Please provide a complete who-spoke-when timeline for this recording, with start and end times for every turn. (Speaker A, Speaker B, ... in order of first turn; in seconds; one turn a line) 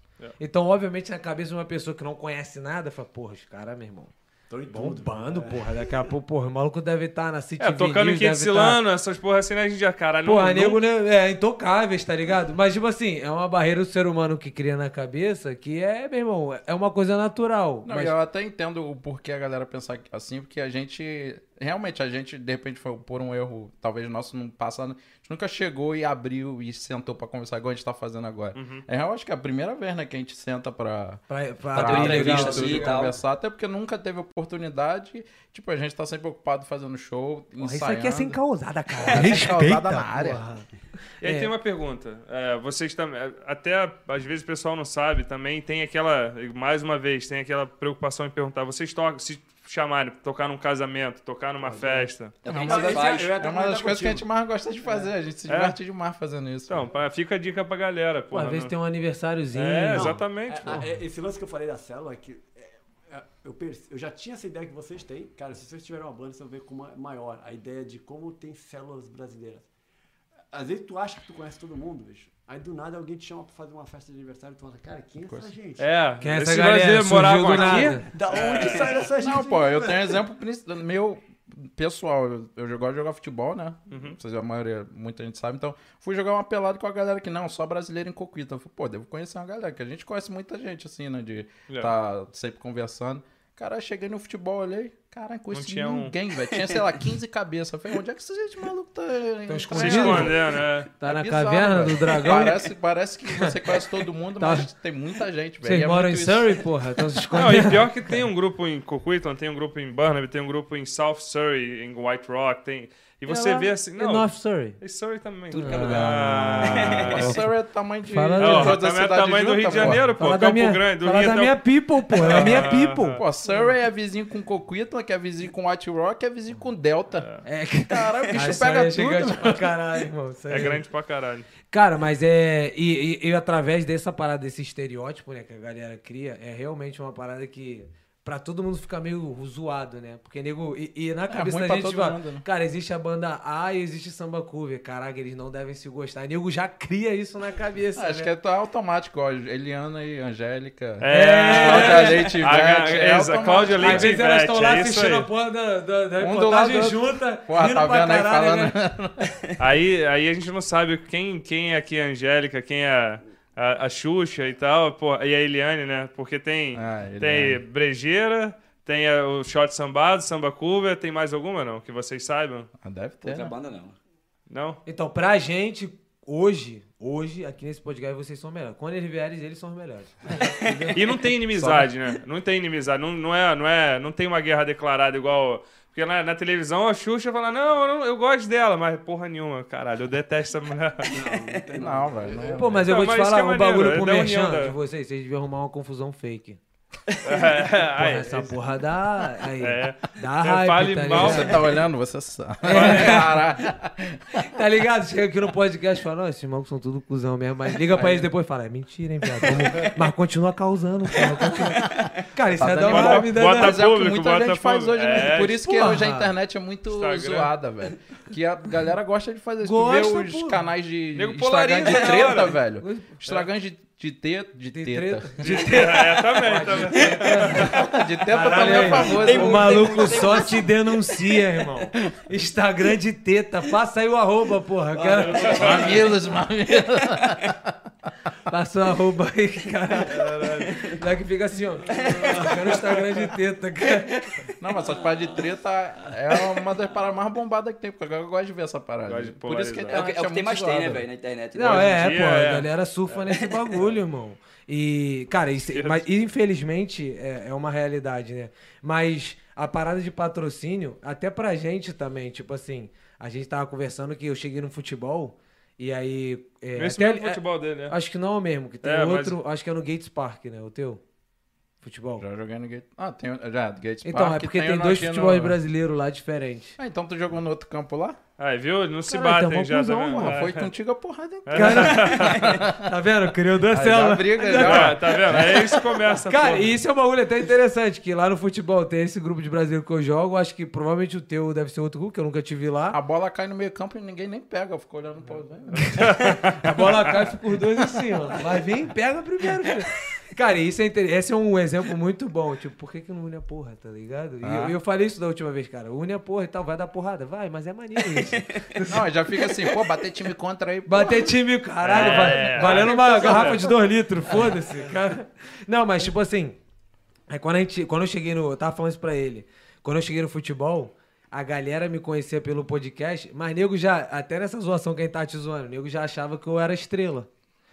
Speaker A: 0.4-4.1
Speaker B: 4.5-6.1
Speaker A: 4.7-8.8
Speaker C: 7.6-10.8
Speaker A: 10.2-18.1
Speaker D: 17.8-38.4
Speaker C: 28.5-28.8
Speaker A: 31.3-33.0
Speaker E: 31.7-33.1
Speaker A: 37.6-40.7
Speaker D: 39.0-40.4
Speaker A: 41.2-41.5
Speaker C: 41.2-52.4
Speaker B: 51.6-54.2
Speaker E: 52.4-53.3
Speaker D: 52.5-56.9
Speaker B: 54.8-55.1
Speaker C: 55.5-55.8
Speaker C: 56.7-58.7
Speaker A: 58.3-60.9
Speaker C: 59.5-60.8
Speaker B: 59.9-69.7
Speaker B: 70.5-75.9
Speaker C: 75.8-79.0
Speaker A: 76.2-78.0
Speaker B: 77.5-80.2
Speaker D: 79.2-106.6
Speaker C: 83.9-84.2
Speaker C: 95.5-96.1
Speaker A: 99.5-100.4
Speaker C: 99.7-100.9
Speaker A: 101.0-102.7
Speaker A: 103.3-103.5
Speaker A: 104.4-104.7
Speaker A: 105.6-108.2
Speaker C: 107.3-117.4
Speaker A: 113.3-114.8
Speaker E: 115.5-117.2
Speaker A: 115.6-117.5
Speaker D: 116.9-120.1
Speaker A: 118.0-118.8
Speaker C: 118.4-121.6
Speaker A: 119.7-123.7
Speaker C: 122.1-123.2
Speaker D: 122.2-127.3
Speaker C: 127.1-127.4
Speaker A: 127.4-130.8
Speaker D: 127.9-129.6
Speaker C: 130.5-131.5
Speaker A: 131.7-148.3
Speaker D: 141.3-142.4
Speaker D: 147.9-154.2
Speaker C: 151.0-155.3
Speaker A: 151.1-152.3
Speaker A: 153.8-158.7
Speaker D: 156.2-159.3
Speaker C: 159.6-172.7
Speaker D: 166.7-167.6
Speaker D: 172.8-173.5
Speaker E: 173.2-173.9
Speaker C: 174.5-174.8
Speaker A: 174.8-181.0
Speaker C: 180.9-191.1
Speaker D: 181.5-181.9
Speaker B: 191.1-192.8
Speaker E: 191.3-191.6
Speaker D: 191.8-192.9
Speaker A: 192.5-196.6
Speaker C: 192.8-194.8
Speaker C: 197.2-198.5
Speaker A: 197.8-201.7
Speaker C: 199.6-201.7
Speaker D: 201.1-204.4
Speaker A: 202.6-203.4
Speaker C: 202.7-203.2
Speaker A: 204.5-213.8
Speaker D: 207.9-208.3
Speaker D: 211.8-225.8
Speaker C: 212.9-215.6
Speaker A: 215.4-216.3
Speaker C: 216.9-217.5
Speaker A: 219.6-220.7
Speaker C: 221.1-222.6
Speaker A: 222.8-223.1
Speaker A: 224.7-235.6
Speaker C: 225.4-227.8
Speaker D: 227.6-230.3
Speaker E: 228.5-230.9
Speaker B: 235.0-236.1
Speaker C: 235.3-236.0
Speaker D: 235.5-237.7
Speaker E: 235.8-236.1
Speaker A: 238.5-244.3
Speaker C: 240.1-240.8
Speaker E: 241.9-242.5
Speaker D: 244.6-251.0
Speaker C: 249.1-250.1
Speaker E: 249.9-251.9
Speaker A: 251.5-271.0
Speaker C: 251.6-252.7
Speaker C: 255.7-256.1
Speaker C: 266.8-267.9
Speaker C: 268.8-269.4
Speaker A: 271.8-272.2
Speaker D: 272.2-275.6
Speaker A: 274.0-276.8
Speaker D: 276.8-278.2
Speaker C: 278.4-280.7
Speaker A: 279.1-280.4
Speaker D: 280.1-282.9
Speaker C: 281.5-282.6
Speaker A: 281.5-293.0
Speaker D: 283.7-285.8
Speaker C: 284.5-286.8
Speaker D: 292.9-296.4
Speaker A: 295.7-309.1
Speaker C: 296.0-296.5
Speaker D: 304.4-304.7
Speaker D: 308.9-311.3
Speaker A: 310.9-316.6
Speaker C: 311.8-313.6
Speaker D: 312.0-312.4
Speaker B: 312.6-313.6
Speaker A: 317.3-327.3